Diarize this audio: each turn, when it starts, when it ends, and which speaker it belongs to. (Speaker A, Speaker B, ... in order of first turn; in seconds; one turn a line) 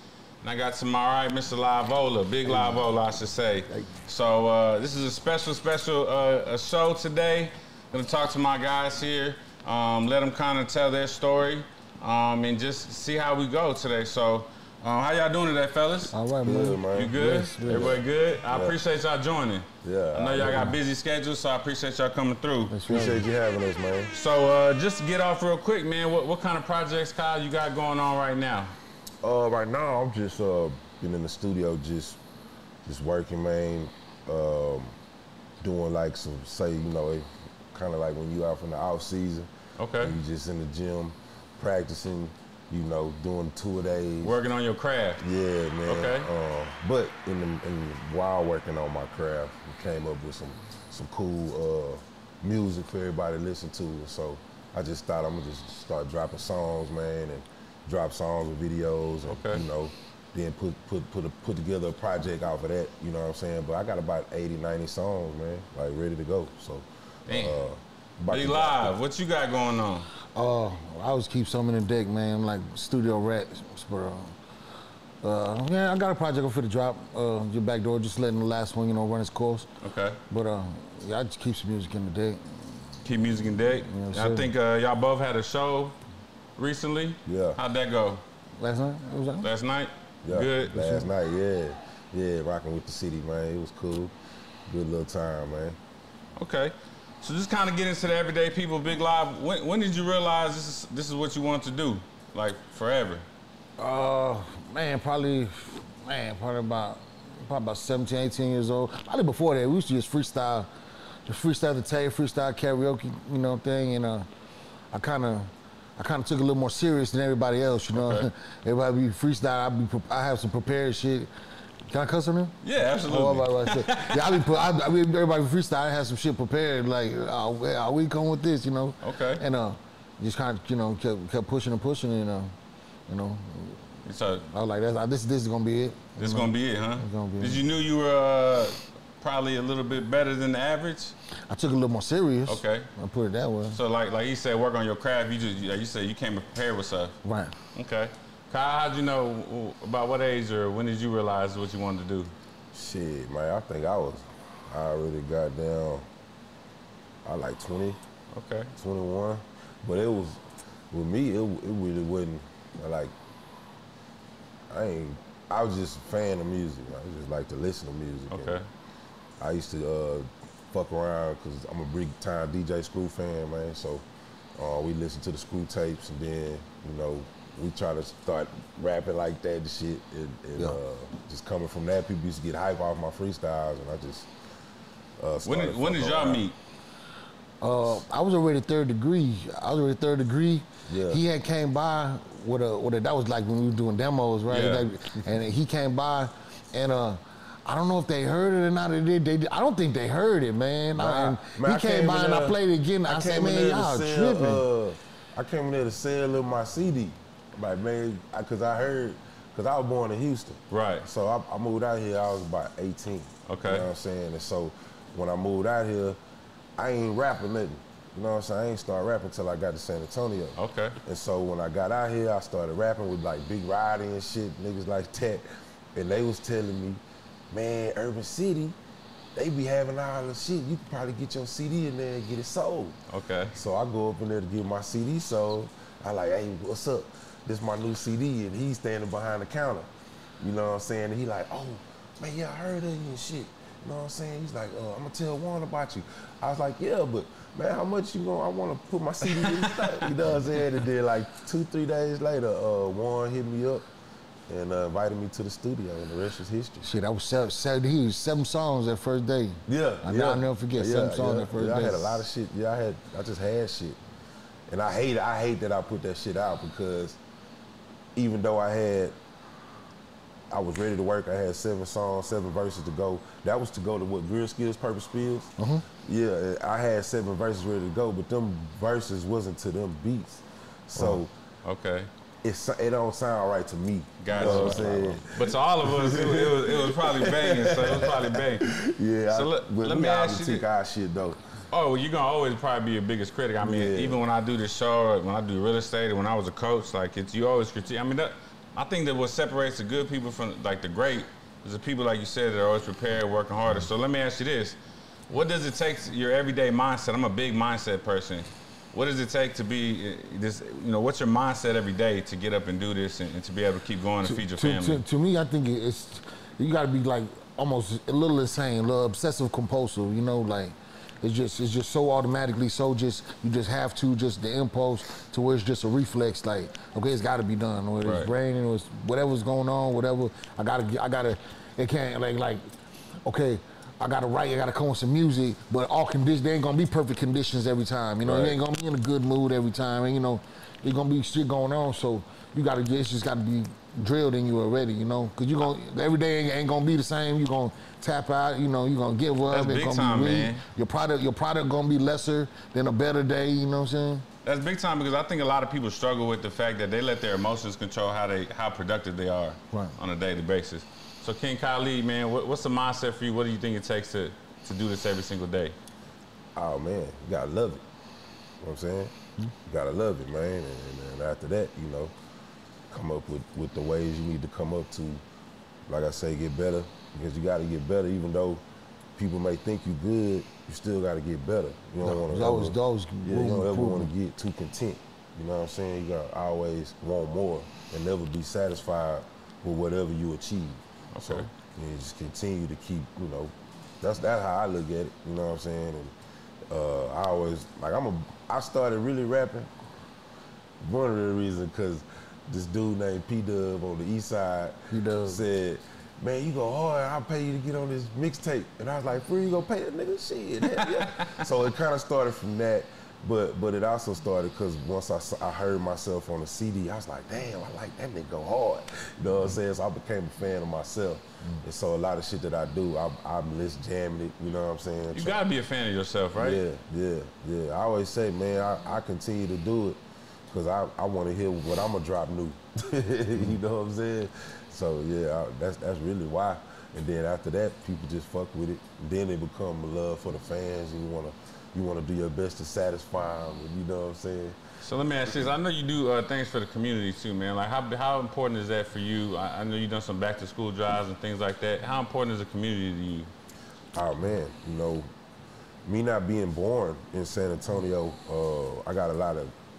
Speaker A: 0.4-16.1
Speaker B: 2.5-2.9
Speaker B: 16.1-18.0
Speaker C: 16.4-18.8
Speaker A: 16.9-22.8
Speaker C: 19.8-20.8
Speaker B: 22.7-23.2
Speaker C: 22.9-24.1
Speaker A: 24.1-28.8
Speaker C: 29.2-32.2
Speaker C: 32.9-35.0
Speaker C: 35.6-44.4
Speaker A: 39.8-40.2
Speaker A: 44.2-45.2
Speaker C: 45.2-68.9
Speaker A: 45.9-46.3
Speaker A: 59.3-59.6
Speaker A: 67.3-67.6
Speaker A: 68.3-70.1
Speaker B: 70.3-74.3
Speaker B: 75.2-79.7
Speaker A: 79.8-80.2
Speaker B: 80.3-82.9
Speaker A: 83.0-86.0
Speaker B: 83.8-84.5
Speaker A: 86.6-88.2
Speaker C: 87.2-87.6
Speaker B: 88.6-89.5
Speaker A: 89.4-91.0
Speaker C: 90.2-94.1
Speaker B: 90.8-91.0
Speaker C: 94.7-95.8
Speaker A: 96.4-103.2
Speaker B: 103.8-110.7
Speaker B: 111.3-114.3
Speaker B: 114.9-121.3
Speaker A: 117.9-118.3
Speaker B: 121.9-132.5
Speaker A: 122.6-124.6
Speaker A: 129.0-129.4
Speaker B: 133.1-137.6
Speaker A: 134.1-134.4
Speaker A: 136.2-141.2
Speaker B: 141.5-143.8
Speaker A: 142.5-142.9
Speaker A: 143.7-147.2
Speaker B: 147.2-147.6
Speaker A: 147.8-152.3
Speaker C: 152.7-156.1
Speaker C: 157.2-158.0
Speaker A: 158.3-158.7
Speaker C: 158.8-163.1
Speaker C: 164.7-168.6
Speaker A: 168.3-168.7
Speaker C: 169.4-184.3
Speaker C: 185.2-186.5
Speaker A: 185.4-186.6
Speaker B: 187.6-204.6
Speaker C: 190.9-191.2
Speaker A: 194.5-194.9
Speaker C: 200.9-216.2
Speaker A: 210.7-211.1
Speaker A: 213.5-213.9
Speaker C: 216.8-228.8
Speaker A: 220.6-221.0
Speaker C: 229.3-233.0
Speaker A: 233.1-233.6
Speaker C: 233.5-239.9
Speaker C: 240.4-253.9
Speaker A: 249.3-250.1
Speaker C: 254.5-256.9
Speaker B: 256.8-262.2
Speaker C: 259.7-264.0
Speaker C: 264.7-267.2
Speaker C: 268.2-269.2
Speaker C: 270.5-281.3
Speaker B: 275.6-275.9
Speaker B: 281.0-281.2
Speaker A: 281.6-282.1
Speaker C: 282.4-291.4
Speaker A: 284.2-288.7
Speaker B: 284.3-285.2
Speaker A: 289.3-290.7
Speaker A: 291.7-304.8
Speaker C: 293.6-294.2
Speaker A: 305.3-315.0
Speaker B: 314.2-332.7
Speaker A: 328.0-328.3
Speaker B: 333.2-354.3
Speaker A: 338.2-338.6
Speaker A: 349.5-350.6
Speaker A: 354.4-365.8
Speaker C: 366.6-367.8
Speaker C: 368.6-369.1
Speaker C: 369.7-372.1
Speaker C: 372.9-375.2
Speaker C: 375.9-378.6
Speaker C: 379.2-396.1
Speaker B: 382.0-384.1
Speaker A: 391.1-391.5
Speaker C: 396.7-399.7
Speaker C: 400.8-425.4
Speaker B: 404.9-405.4
Speaker A: 410.6-411.5
Speaker A: 425.1-426.6
Speaker C: 426.4-444.6
Speaker A: 444.8-453.3
Speaker C: 445.2-445.5
Speaker C: 453.9-455.1
Speaker C: 455.9-459.5